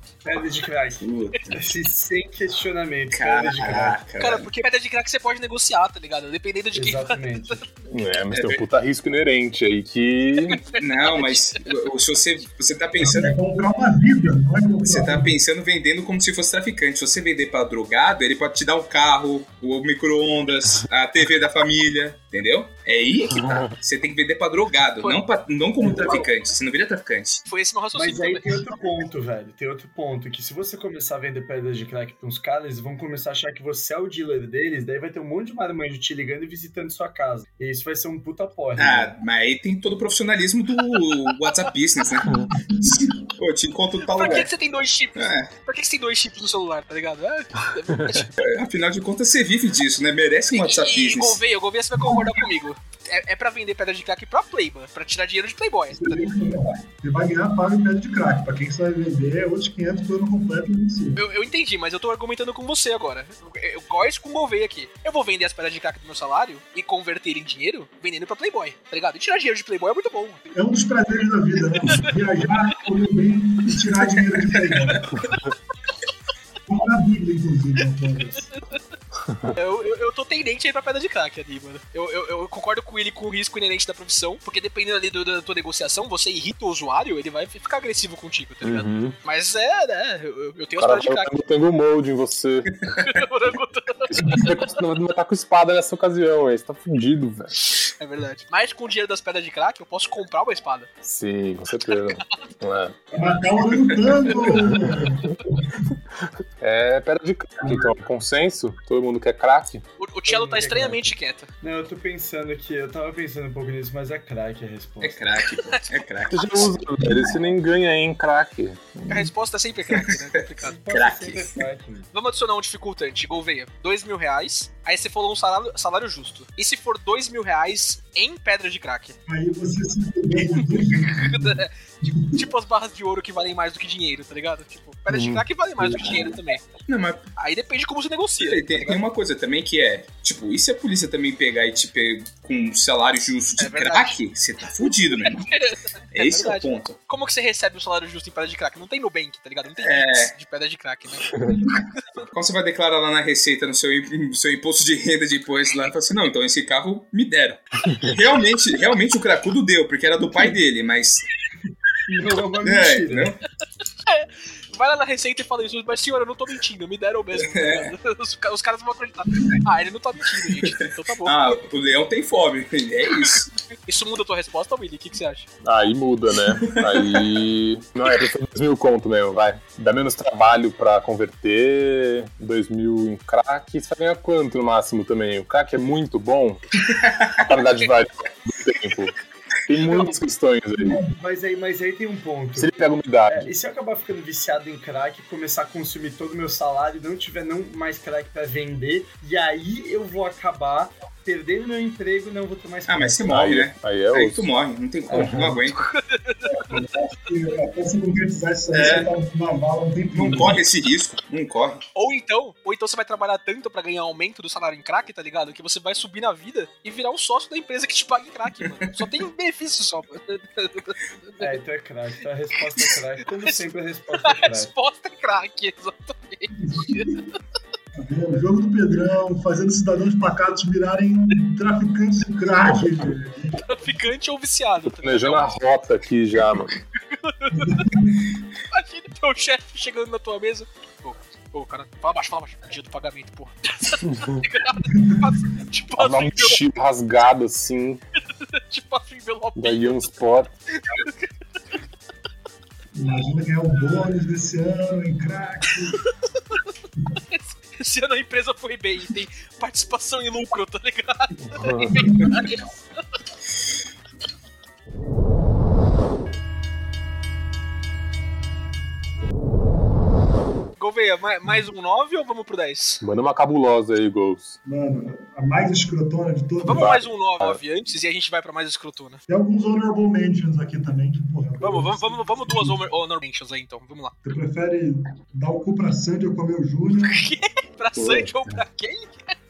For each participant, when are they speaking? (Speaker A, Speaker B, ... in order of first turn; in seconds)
Speaker A: 0.2-4.0, 6.7-7.7, 25.8-26.2, 27.9-39.1, 110.3-115.2, 120.6-122.1, 162.1-163.3, 189.8-190.2, 191.0-192.7, 193.3-203.3, 205.1-205.6, 221.4-224.7
Speaker B: 1.0-1.7, 3.1-4.5, 8.3-8.6, 10.8-13.3, 14.8-27.4, 38.8-44.5, 45.1-45.5, 48.4-51.4, 115.0-116.8, 119.9-120.2, 120.9-121.6, 136.9-137.3, 138.4-145.5, 146.1-146.9, 149.8-150.3, 152.3-161.2, 162.6-163.4, 167.3-167.9, 170.6-173.5, 176.5-177.3, 187.0-187.4, 202.9-205.8, 208.7-209.1, 210.1-211.8, 287.9-288.6
Speaker C: 4.2-7.6, 10.5-11.6, 27.5-28.6, 44.1-48.4, 50.5-56.3, 61.1-70.4, 71.8-72.1, 74.8-75.3, 79.5-91.3, 92.9-94.5, 97.6-100.9, 110.0-111.5, 115.5-115.9, 119.1-120.8, 122.1-129.2, 130.7-136.7, 137.3-139.0, 143.6-144.2, 144.8-151.6, 164.1-171.6, 173.8-175.5, 205.8-206.8, 211.9-221.6, 224.2-227.3, 233.6-235.5, 237.0-237.9, 238.7-246.6, 248.4-249.9, 250.7-251.3, 257.2-262.7, 270.8-273.0, 276.6-279.2, 281.6-284.1, 287.0-289.3
Speaker D: 7.9-10.6, 23.4-23.7, 88.6-89.2, 90.8-93.0, 94.1-97.5, 101.0-103.0, 106.6-109.8, 116.3-119.3, 135.1-136.2, 175.6-186.7, 187.3-189.1, 189.7-191.1, 192.6-193.5, 203.3-204.5, 205.1-205.5, 234.9-236.8, 244.1-244.4, 246.0-248.0, 249.6-250.5, 261.5-262.2, 273.0-274.6, 276.7-277.6
Speaker E: 13.0-15.3, 42.5-43.1, 55.9-61.2, 70.5-75.1, 76.7-78.5, 103.1-105.8, 107.6-107.9, 129.3-132.4, 206.4-210.6, 226.6-227.2, 227.9-233.6, 237.5-238.2, 244.8-245.3, 252.9-256.0, 261.9-262.6, 274.6-277.0, 279.3-282.8, 284.2-287.3